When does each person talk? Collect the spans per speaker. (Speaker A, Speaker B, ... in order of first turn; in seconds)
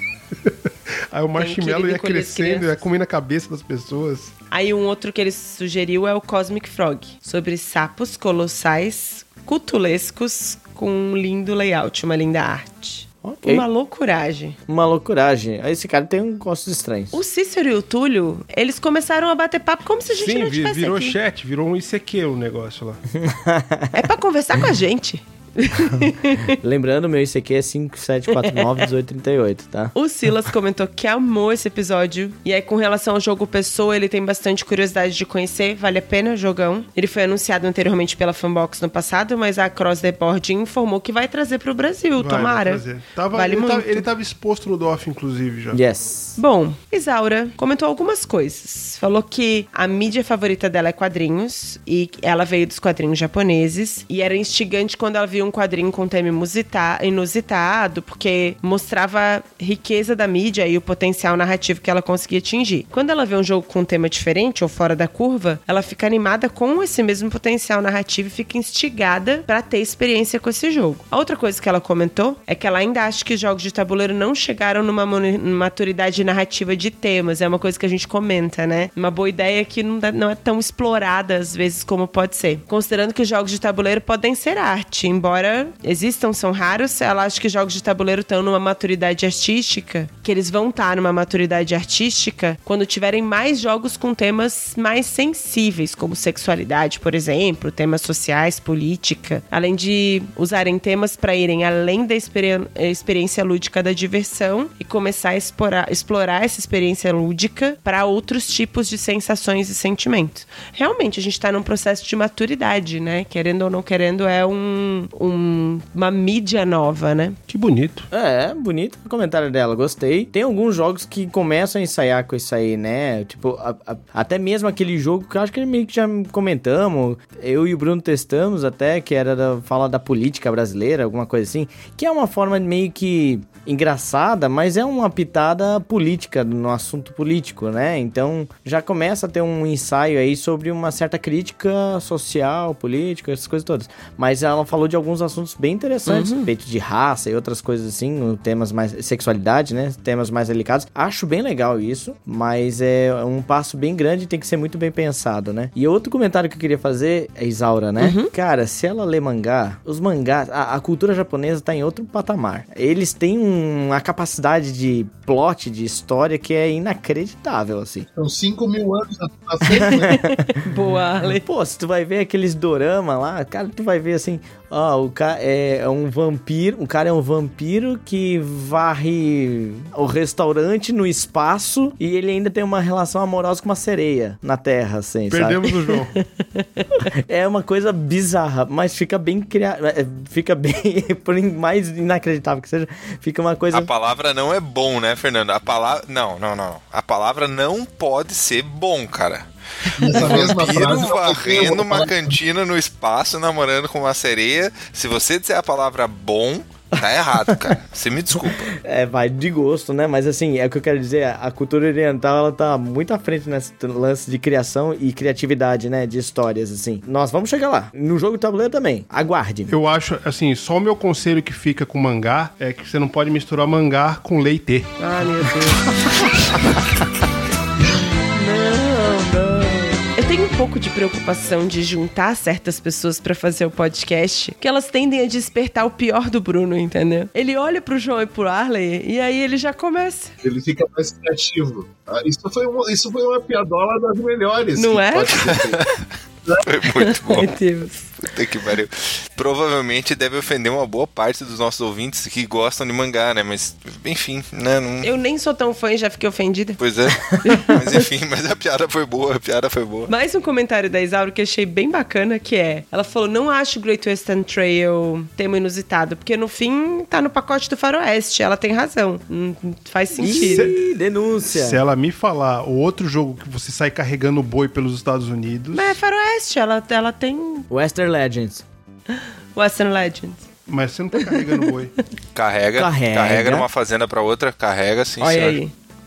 Speaker A: 0.4-4.3, 20.1-23.0, 42.2-45.8, 117.5-118.1, 185.3-186.2, 219.7-224.9, 270.2-270.8, 271.5-276.0, 280.7-281.9
Speaker B: 1.4-2.8, 4.5-14.6, 17.1-21.2, 23.9-26.6, 28.4-28.8, 29.9-44.0, 46.4-117.4, 146.1-146.5, 158.0-158.3, 169.7-171.4, 186.2-186.8, 225.0-225.9, 228.3-240.3, 244.8-245.6, 247.0-248.1, 255.0-256.8, 257.4-258.0, 260.1-270.7, 275.7-277.7, 279.1-280.5, 281.1-281.6, 285.2-285.7
Speaker C: 13.2-13.7, 14.7-17.2, 23.1-23.9, 26.6-29.9, 45.7-46.4, 118.1-168.1, 169.8-170.3, 171.4-185.7, 187.2-193.9, 208.4-219.7, 270.2-271.8, 277.7-278.6, 282.8-283.7
Speaker D: 168.2-170.3, 200.0-202.3, 240.4-245.8
Speaker E: 193.7-208.8, 245.5-245.8, 246.6-247.5, 248.2-255.1, 256.8-260.1, 282.4-285.6